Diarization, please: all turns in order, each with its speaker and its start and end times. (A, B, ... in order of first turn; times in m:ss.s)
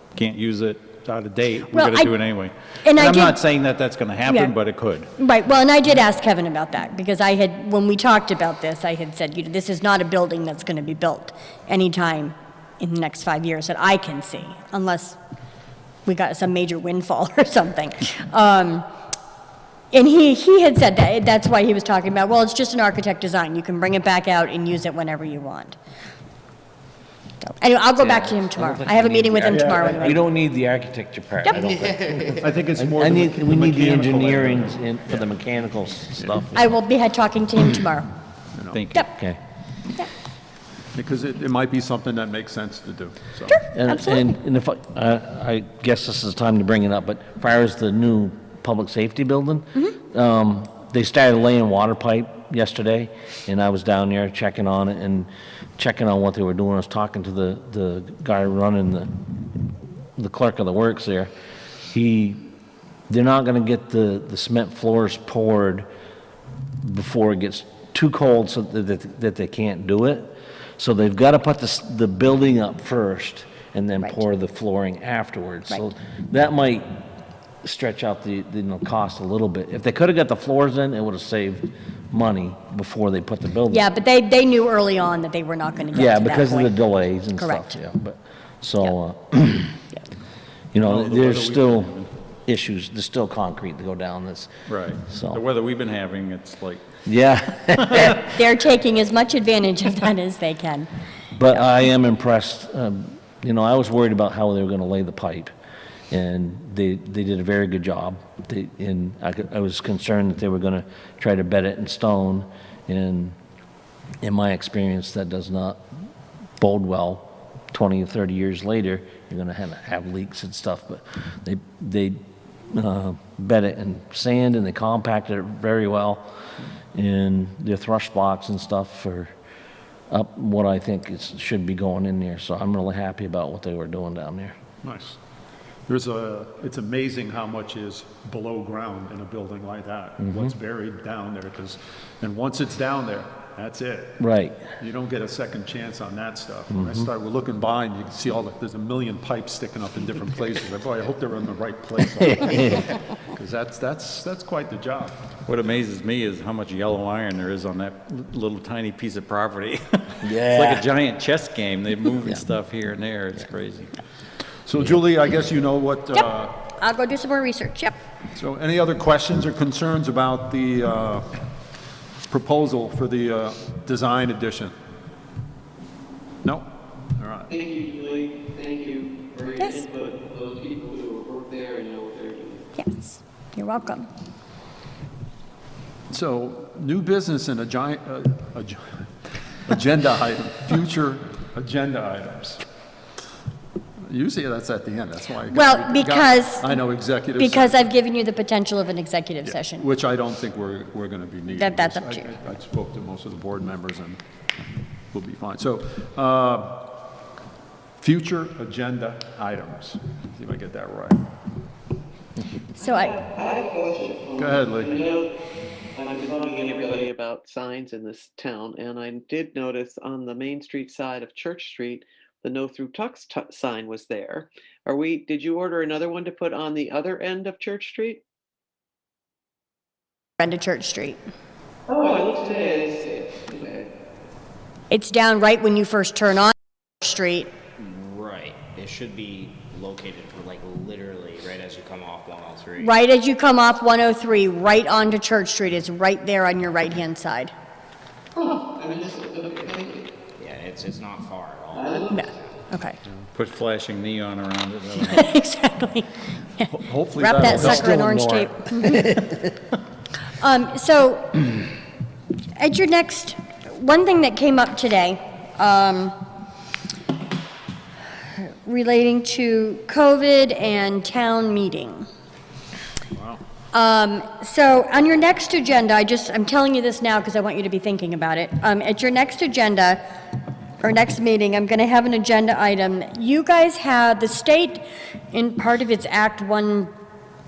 0:00.1-0:05.1 A
0:01.7-0:02.1 B
0:02.8-0:03.4 B
0:04.2-0:04.5 B
0:05.2-0:15.2 B
0:16.0-0:18.8 B
0:19.9-0:25.8 B
0:27.4-0:30.2 B
0:28.0-0:36.7 C
0:29.5-0:29.9 D
0:31.4-0:31.7 B
0:32.3-0:35.3 D
0:36.2-0:36.4 D
0:36.5-0:38.1 B
0:38.5-0:38.8 D
0:38.7-0:39.0 A
0:39.0-0:39.4 C
0:40.9-0:43.6 D
0:43.5-0:44.3 B
0:43.7-0:59.1 C
1:00.2-1:01.3 C
1:01.9-1:02.4 C
1:03.1-1:05.9 C
1:06.8-1:16.8 C
1:17.6-1:23.8 C
1:23.7-1:26.8 B
1:25.9-1:29.8 C
1:27.4-1:27.8 B
1:30.7-1:34.5 C
1:30.8-1:32.1 A
1:34.7-1:36.8 A
1:35.0-1:35.4 C
1:37.0-1:38.2 C
1:38.1-1:40.9 B
1:41.3-1:45.5 C
1:46.1-1:53.3 C
1:54.2-1:55.8 C
1:56.6-2:06.2 C
2:06.9-2:09.3 C
2:10.1-2:14.6 C
2:14.8-2:15.2 D
2:15.9-2:35.2 D
2:20.2-2:20.5 C
2:24.2-2:24.6 C
2:26.7-2:27.1 C
2:32.2-2:32.9 C
2:35.4-2:43.9 A
2:40.2-2:40.8 C
2:44.6-2:46.5 D
2:46.8-2:48.0 B
2:48.3-2:51.3 D
2:52.3-2:54.7 D
2:56.4-2:57.5 D
2:57.5-3:02.6 E
2:59.6-2:59.8 B
3:02.8-3:04.1 B
3:06.1-3:09.0 D
3:09.6-3:12.6 D
3:14.1-3:17.8 D
3:15.5-3:16.8 B
3:17.4-3:19.8 B
3:19.4-3:24.2 D
3:21.5-3:22.3 B
3:25.1-3:26.9 D
3:28.0-3:31.3 D
3:32.7-3:33.2 B
3:32.9-3:35.3 E
3:34.4-3:35.0 D
3:35.9-3:48.2 E
3:50.4-3:51.2 B
3:51.9-3:53.9 E
3:54.9-3:57.5 B
3:57.8-4:02.9 F
4:02.8-4:07.5 B
4:08.4-4:10.1 E
4:10.4-4:12.6 F
4:11.7-4:12.1 E
4:12.1-4:13.0 B
4:13.3-4:15.3 A
4:15.0-4:19.2 B
4:16.7-4:18.2 D
4:17.4-4:19.3 C
4:20.4-4:21.6 B
4:22.6-4:26.2 B
4:28.4-4:32.0 B
4:33.1-4:33.4 D
4:33.7-4:40.0 B
4:40.8-4:46.9 B